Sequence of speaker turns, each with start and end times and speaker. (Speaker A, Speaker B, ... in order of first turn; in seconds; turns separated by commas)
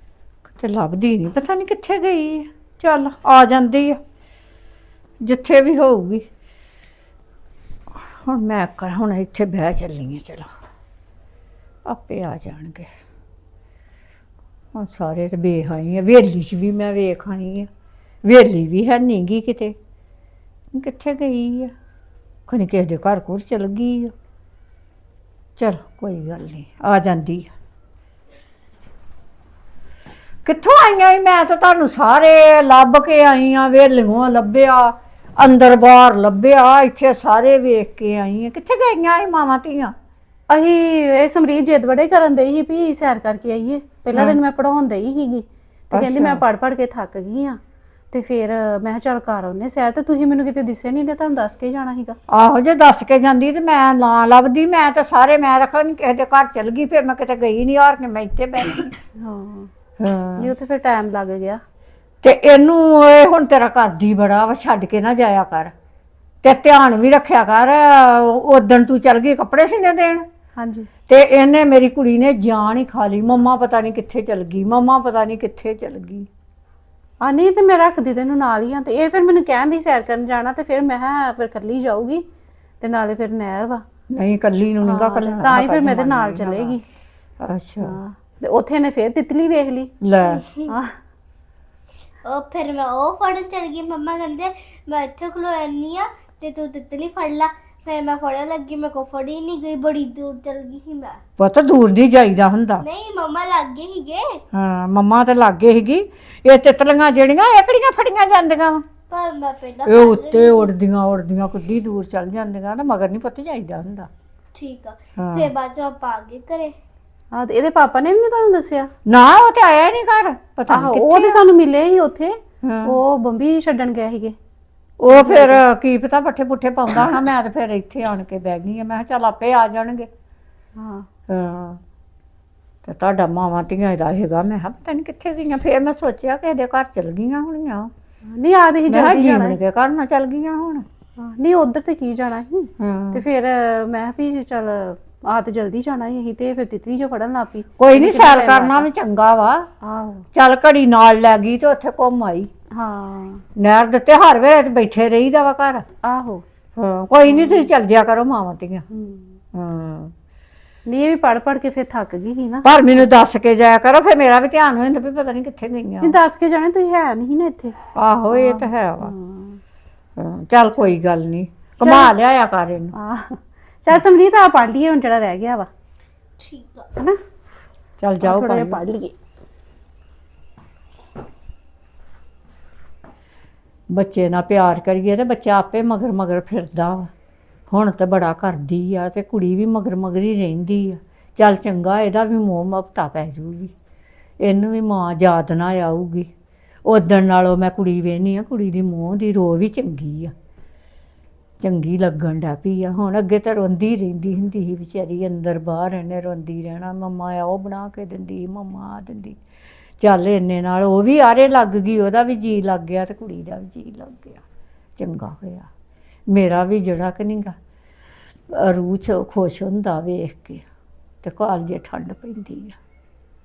Speaker A: 0.5-4.0, Speaker A: 5.2-6.2, Speaker A: 8.1-10.5, Speaker A: 11.8-12.9, Speaker A: 14.7-17.7, Speaker A: 18.2-19.7, Speaker A: 20.7-21.7, Speaker A: 22.5-24.1, Speaker A: 25.6-27.5, Speaker A: 30.4-39.9, Speaker B: 40.5-47.6, Speaker A: 44.1-44.4, Speaker A: 45.9-46.4, Speaker B: 48.1-52.1, Speaker A: 52.3-58.9, Speaker B: 59.2-59.7, Speaker A: 60.0-60.5, Speaker B: 60.4-61.6, Speaker A: 62.2-65.7, Speaker A: 66.4-70.2, Speaker B: 70.5-70.9, Speaker A: 71.1-76.3, Speaker B: 77.2-82.2, Speaker B: 82.8-83.8, Speaker A: 84.1-86.8, Speaker B: 84.8-86.8, Speaker A: 87.4-88.0, Speaker B: 87.8-89.9, Speaker A: 90.0-90.4, Speaker C: 90.2-90.7, Speaker C: 92.2-101.2, Speaker A: 101.4-102.8, Speaker C: 102.8-104.4, Speaker A: 104.5-108.8, Speaker C: 109.1-110.7, Speaker A: 109.8-114.1, Speaker C: 114.5-116.8, Speaker A: 115.2-115.5, Speaker B: 117.3-118.9, Speaker A: 119.0-121.4, Speaker B: 120.7-124.3, Speaker A: 122.6-123.0, Speaker A: 125.0-130.1, Speaker B: 125.1-125.6, Speaker B: 130.8-131.1, Speaker A: 131.3-131.8, Speaker A: 132.8-137.9, Speaker B: 138.3-139.6, Speaker A: 138.9-140.8, Speaker B: 141.2-148.9, Speaker A: 142.8-143.2, Speaker A: 147.8-149.7, Speaker B: 149.8-150.3, Speaker A: 150.3-152.5, Speaker B: 152.7-153.4, Speaker A: 153.6-155.8, Speaker B: 156.0-156.4, Speaker A: 156.8-158.8, Speaker B: 157.3-157.7, Speaker B: 158.9-159.4, Speaker A: 159.5-160.1, Speaker B: 160.9-162.7, Speaker A: 162.6-166.2, Speaker B: 166.0-167.8, Speaker A: 167.9-169.1, Speaker B: 168.3-169.6, Speaker A: 170.2-172.9, Speaker B: 171.8-172.1, Speaker B: 172.9-175.7, Speaker C: 176.4-176.8, Speaker A: 178.0-178.8, Speaker B: 178.2-179.1, Speaker A: 183.9-187.1, Speaker A: 187.7-193.7, Speaker A: 194.4-196.3, Speaker A: 196.8-200.3, Speaker A: 201.6-209.4, Speaker A: 210.0-214.4, Speaker A: 215.0-215.7, Speaker A: 216.3-217.6, Speaker A: 218.5-220.6, Speaker A: 221.2-222.8